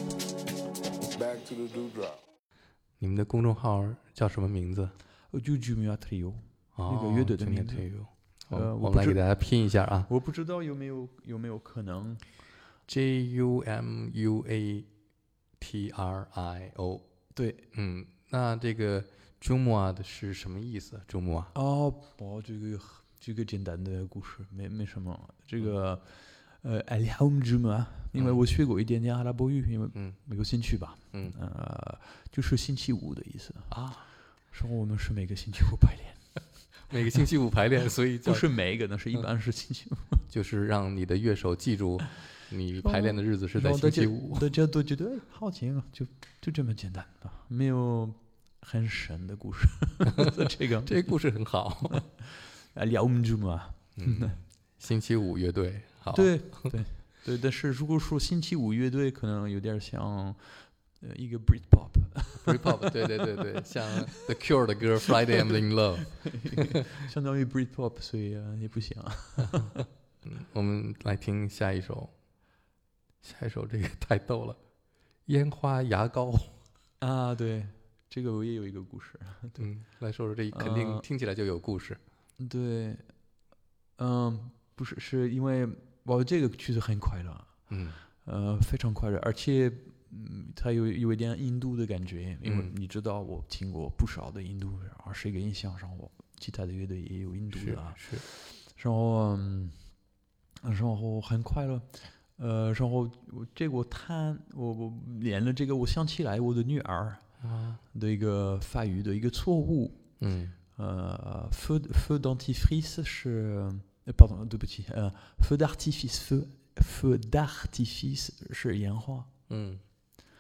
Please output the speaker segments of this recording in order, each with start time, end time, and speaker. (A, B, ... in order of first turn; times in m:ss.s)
0:03.0-0:04.9 A
0:05.3-0:12.4 B
0:06.7-0:10.1 A
0:12.8-0:21.5 A
0:17.3-0:17.6 B
0:21.5-0:36.8 B
0:28.1-0:28.4 A
0:29.9-0:30.2 A
0:31.1-0:31.4 A
0:33.7-0:34.0 A
0:36.9-0:38.7 A
0:38.2-0:40.2 B
0:40.3-0:44.5 A
0:42.8-0:54.4 B
0:50.8-0:52.0 A
0:54.0-0:56.8 A
0:56.1-1:03.2 B
1:02.4-1:06.6 A
1:06.4-1:09.8 B
1:09.5-1:12.2 A
1:13.2-1:14.7 A
1:15.2-1:16.6 A
1:17.0-1:19.9 B
1:19.6-1:22.0 A
1:20.5-1:21.0 B
1:22.4-1:40.1 B
1:27.7-1:28.0 A
1:32.4-1:32.7 A
1:37.5-1:38.2 A
1:40.6-1:59.3 B
1:47.4-1:47.8 A
1:50.2-1:50.6 A
1:59.5-1:59.8 A